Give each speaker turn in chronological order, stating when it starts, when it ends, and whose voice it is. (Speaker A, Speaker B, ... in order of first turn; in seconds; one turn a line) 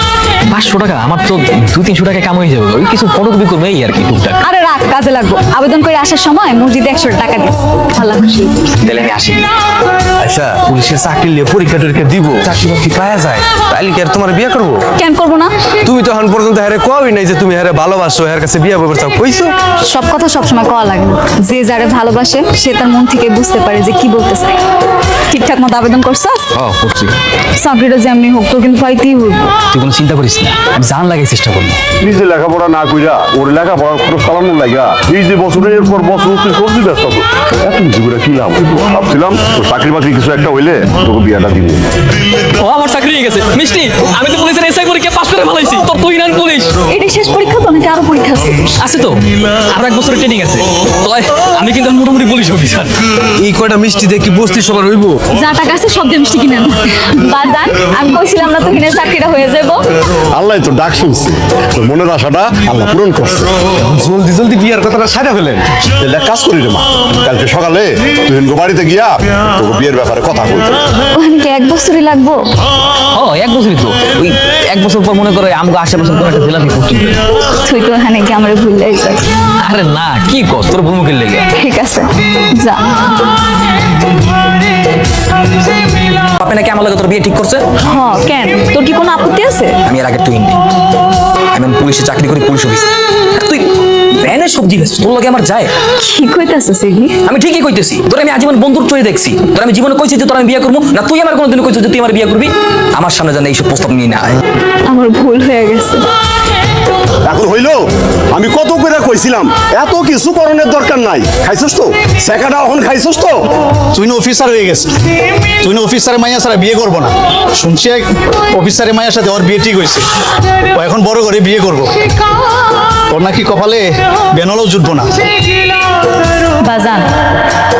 Speaker A: 0.5-4.4
Speaker B: 4.4-8.8
Speaker A: 8.8-9.5
Speaker C: 10.2-14.8
Speaker B: 15.0-15.5
Speaker C: 15.8-19.5
Speaker B: 19.9-24.6
Speaker B: 25.3-26.5
Speaker A: 26.6-27.1
Speaker B: 27.6-29.5
Speaker A: 29.7-31.8
Speaker D: 32.0-41.8
Speaker A: 42.6-46.7
Speaker B: 46.9-48.8
Speaker A: 48.8-52.9
Speaker C: 53.4-55.2
Speaker B: 55.4-59.9
Speaker D: 60.3-63.5
Speaker C: 63.8-65.7
Speaker D: 66.0-70.8
Speaker B: 71.2-72.5
Speaker A: 73.1-77.1
Speaker B: 77.6-79.3
Speaker A: 79.6-81.5
Speaker B: 81.6-82.8
Speaker A: 86.4-87.6
Speaker B: 87.9-89.8
Speaker A: 89.9-90.6
Speaker A: 91.5-95.7
Speaker B: 96.0-97.2
Speaker A: 97.2-104.4
Speaker B: 104.9-106.1
Speaker D: 107.2-107.8
Speaker D: 108.3-113.4
Speaker E: 113.9-114.9
Speaker E: 115.6-120.0
Speaker E: 120.7-121.9
Speaker E: 123.1-125.1
Speaker B: 126.7-127.1